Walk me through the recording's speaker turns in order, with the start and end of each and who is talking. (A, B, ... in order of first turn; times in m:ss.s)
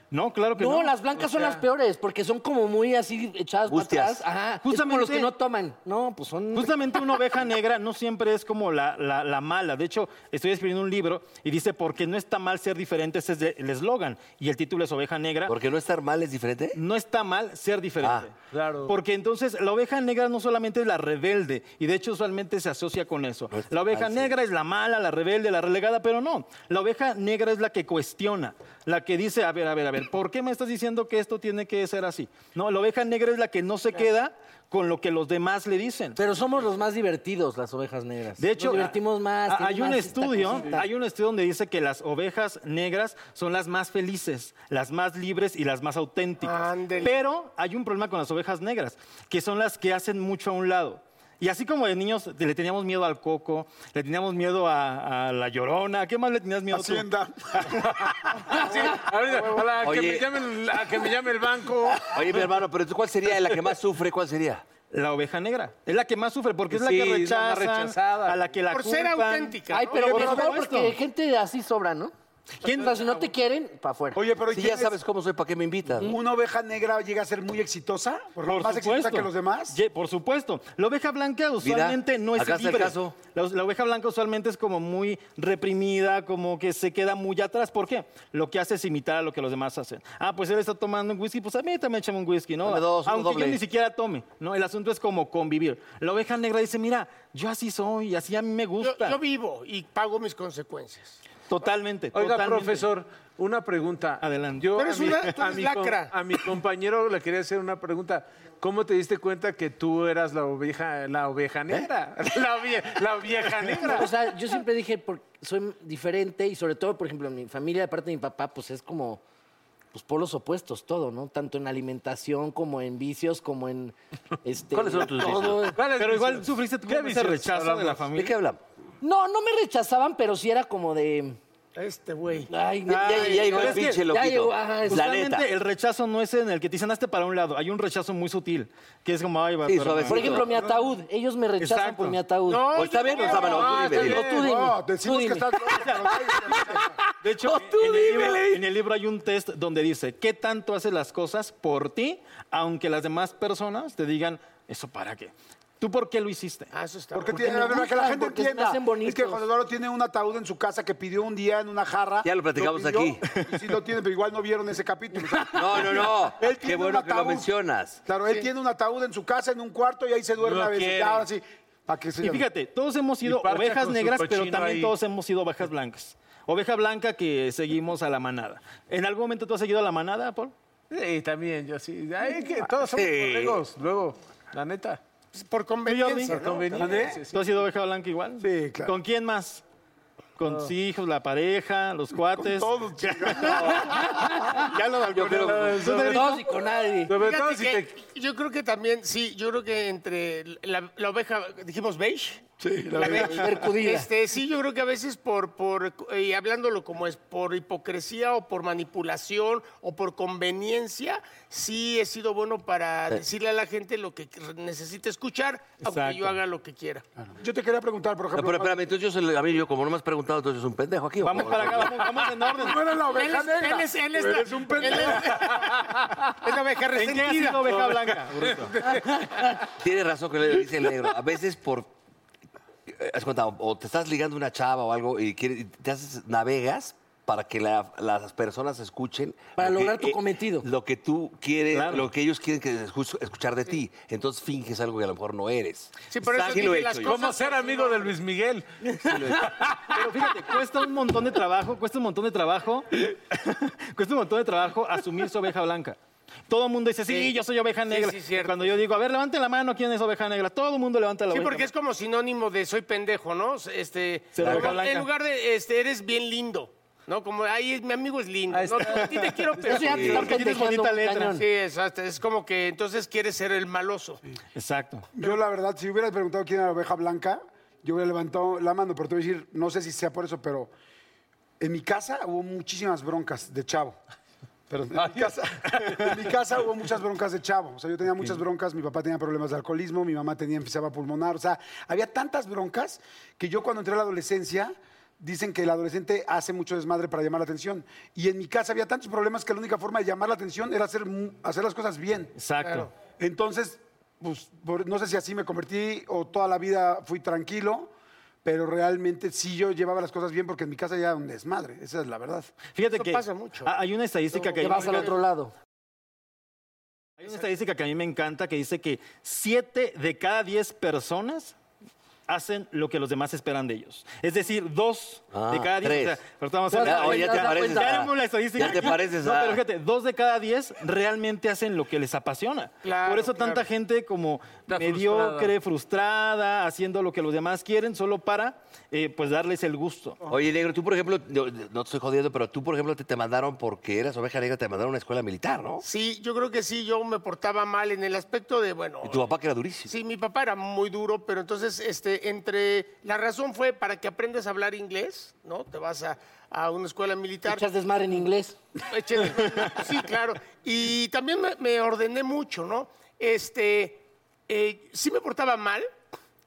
0:00.1-0:01.0 A
0:00.6-0:06.8 B
0:01.2-0:01.6 C
0:03.7-0:04.3 D
0:04.6-0:05.3 A
0:06.5-0:15.6 A
0:15.5-0:16.8 D
0:16.8-0:18.3 A
0:18.0-0:18.3 D
0:18.5-0:19.0 C
0:18.9-0:36.2 A
0:23.5-0:24.4 D
0:36.2-0:40.9 B
0:38.4-0:57.1 A
0:46.4-0:47.2 E
0:56.7-0:57.9 F
0:58.1-1:02.5 C
0:58.5-0:59.7 F
0:59.8-1:00.3 D
1:02.1-1:04.6 D
1:04.9-1:10.9 A
1:06.7-1:08.4 C
1:08.7-1:10.1 E
1:09.7-1:12.1 B
1:10.1-1:10.6 F
1:12.6-1:13.0 A
1:12.7-1:14.2 B
1:14.2-1:15.0 F
1:14.5-1:16.2 D
1:16.0-1:19.8 F
1:18.4-1:39.2 A
1:21.6-1:23.2 D
1:32.6-1:33.6 D
1:38.8-1:41.2 E
1:41.5-1:42.9 A
1:42.1-1:54.1 C
1:44.2-1:45.4 A
1:44.8-1:46.1 E
1:53.8-1:59.2 B
1:59.9-2:05.8 B
2:04.7-2:05.7 D
2:05.8-2:08.1 C
2:05.9-2:08.3 A
2:08.2-2:08.6 D
2:09.0-2:11.4 B
2:11.8-2:12.5 E
2:12.5-2:15.1 B
2:12.9-2:15.5 D
2:12.9-2:14.0 A
2:14.9-2:20.4 A
2:19.6-2:20.5 D
2:20.1-2:25.7 B
2:20.5-2:20.8 F
2:21.6-2:22.2 A
2:22.5-2:24.0 E
2:22.7-2:24.3 D
2:23.2-2:24.5 C
2:24.3-2:27.0 F
2:25.8-2:26.7 A
2:27.2-2:36.7 A
2:27.5-2:28.6 D
2:36.7-2:37.4 E
2:37.1-2:47.5 F
2:37.3-2:39.5 B
2:42.2-2:43.2 D
2:45.5-2:48.0 D
2:48.0-2:52.5 F
2:50.4-2:51.3 C
2:52.2-3:00.5 A
2:53.2-2:54.9 C
3:00.9-3:05.0 C
3:02.9-3:03.6 D
3:05.3-3:07.2 E
3:05.9-3:06.4 A
3:06.3-3:07.4 C
3:06.8-3:07.2 F
3:07.3-3:09.6 A
3:08.4-3:09.0 F
3:10.4-3:14.1 A
3:12.3-3:13.9 F
3:13.5-3:13.9 D
3:14.6-3:16.5 A
3:15.1-3:15.7 D
3:15.3-3:16.4 C
3:15.9-3:17.2 B
3:17.1-3:18.0 C
3:17.2-3:22.5 E
3:22.6-3:23.6 F
3:23.0-3:24.1 B
3:23.0-3:37.0 E
3:35.8-3:36.4 A
3:37.3-3:38.8 F
3:38.3-3:42.1 D
3:41.2-3:42.9 A
3:42.5-3:45.6 F
3:43.1-3:45.6 E
3:44.9-3:46.1 C
3:46.4-3:47.7 E
3:47.0-3:48.9 A
3:47.6-3:49.5 C
3:49.8-3:51.9 D
3:52.9-4:07.2 D
3:59.6-4:00.7 B
4:01.7-4:02.1 A
4:06.1-4:08.2 E
4:07.0-4:09.6 C
4:09.0-4:09.6 D
4:09.9-4:16.0 A
4:16.5-4:21.7 A
4:17.1-4:17.3 E
4:17.9-4:18.8 E
4:21.3-4:30.4 E
4:24.3-4:25.1 A
4:24.4-4:24.8 D
4:28.5-4:30.0 C
4:28.9-4:29.4 A
4:29.6-4:31.5 B
4:29.9-4:30.4 D
4:30.1-4:31.4 A
4:31.4-4:34.2 E
4:34.6-4:35.1 A
4:35.2-4:40.7 F
4:41.6-4:44.0 F
4:44.7-5:02.3 F
5:02.4-5:02.9 A
5:02.6-5:02.9 E
5:03.2-5:07.9 F
5:08.4-5:12.5 F
5:12.7-5:15.2 A
5:12.9-5:13.7 E
5:14.3-5:15.2 E
5:14.6-5:15.5 B
5:17.2-5:21.6 A
5:22.3-5:40.2 A
5:25.3-5:29.6 D
5:26.7-5:27.8 B
5:32.8-5:33.7 E
5:34.7-5:35.5 C
5:40.3-5:45.8 D
5:45.8-5:49.3 E
5:49.0-5:49.9 D
5:49.9-5:57.6 E
5:57.5-5:58.6 B
5:58.9-6:05.9 E